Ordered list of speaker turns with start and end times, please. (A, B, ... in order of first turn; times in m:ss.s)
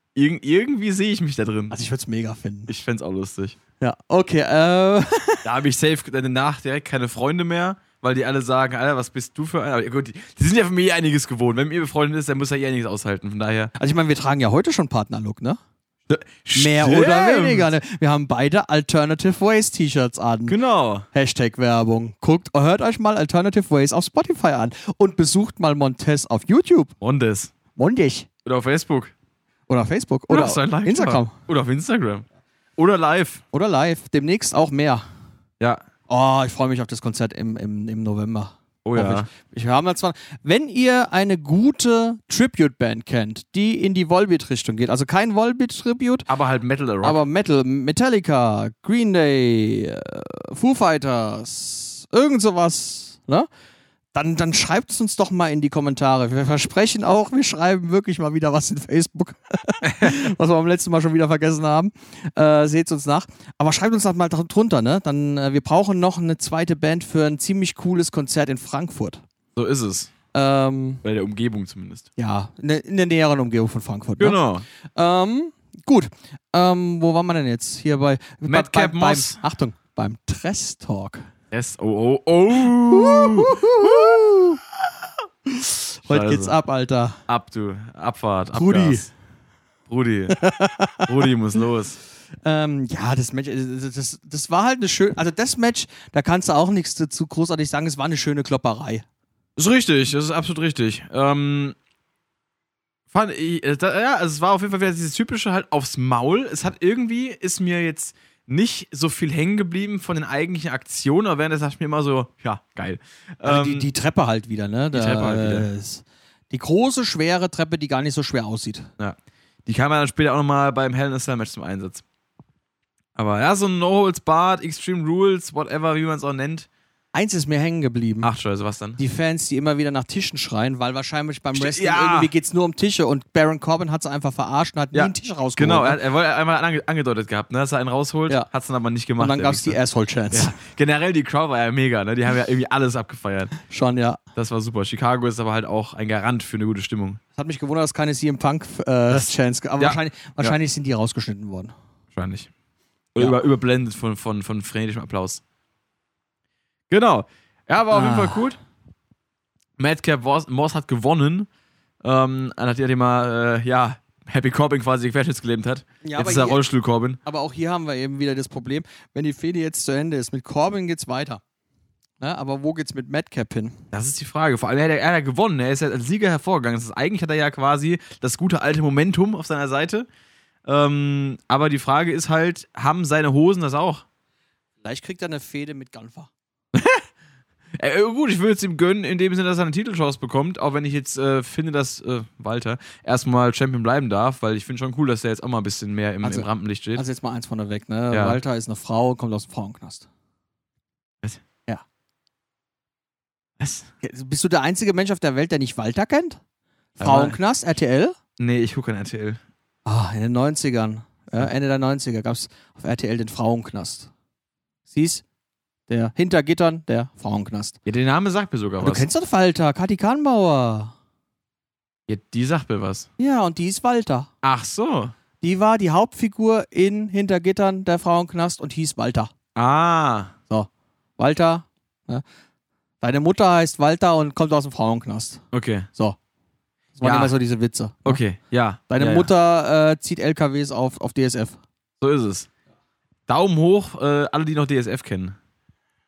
0:00.2-0:01.7 A
0:01.7-0:02.7 B
0:02.7-0:03.6 A
0:03.8-0:05.4 B
0:05.4-0:13.7 A
0:13.8-0:15.6 B
0:16.1-0:17.7 A
0:16.6-0:20.6 B
0:20.5-0:21.1 A
0:21.1-0:26.9 B
0:27.0-0:27.5 A
0:27.8-0:28.3 B
0:28.4-0:29.1 A
0:29.7-0:31.4 B
0:30.3-0:32.3 A
0:32.8-0:33.4 A
0:33.5-0:35.0 B
0:36.1-0:46.3 B
0:38.8-0:39.3 A
0:46.3-0:47.2 A
0:47.0-0:53.5 B
0:54.1-1:09.2 B
1:09.6-1:10.1 A
1:10.3-1:11.0 B
1:11.0-1:12.1 A
1:12.2-1:14.4 B
1:14.2-1:14.7 A
1:15.0-1:21.3 B
1:18.5-1:19.4 A
1:21.5-1:24.2 A
1:22.8-1:24.6 B
1:25.5-1:27.2 B
1:26.1-1:26.6 A
1:27.3-1:29.1 A
1:28.5-1:29.1 B
1:29.9-1:30.4 A
1:30.3-1:31.1 B
1:31.0-1:32.0 A
1:32.4-1:39.0 B
1:39.6-1:41.8 A
1:43.1-1:53.9 A
1:53.4-1:58.9 B
1:54.9-1:55.7 A
1:59.0-2:02.0 A
2:03.2-2:06.7 A
2:07.1-2:08.3 B
2:08.2-2:09.0 A
2:09.0-2:16.0 B
2:11.5-2:12.3 A
2:14.9-2:19.8 A
2:19.2-2:20.6 B
2:20.3-2:23.5 A
2:23.7-2:24.2 B
2:24.4-2:27.2 A
2:27.4-2:31.7 B
2:29.8-2:30.6 A
2:32.1-2:32.5 A
2:33.2-2:35.4 A
2:36.9-2:38.6 A
2:37.9-2:38.4 B
2:39.8-2:41.5 A
2:42.0-2:47.2 A
2:46.0-2:46.6 B
2:47.2-2:51.4 B
2:52.2-2:53.8 B
2:53.9-3:00.1 A
3:00.7-3:04.0 A
3:04.8-3:06.3 B
3:06.7-3:07.0 A
3:07.8-3:17.0 A
3:16.2-3:20.1 B
3:18.1-3:18.4 A
3:23.6-3:23.9 A
3:24.0-3:26.4 B
3:27.0-3:28.2 B
3:27.0-3:27.4 A
3:28.4-3:29.4 A
3:29.8-3:34.1 B
3:34.9-3:35.2 B
3:35.9-3:37.8 B
3:37.9-3:39.1 A
3:38.8-3:41.0 B
3:42.1-3:43.1 A
3:43.2-3:44.3 B
3:44.4-3:45.2 A
3:45.4-3:49.3 B
3:49.6-3:50.3 A
3:50.5-3:52.2 B
3:53.0-3:55.4 B
3:55.5-3:55.9 A
3:57.0-3:58.2 B
3:57.0-3:57.3 A
3:58.0-3:59.3 A
3:58.9-4:01.6 B
4:02.0-4:02.5 A
4:03.3-4:05.4 A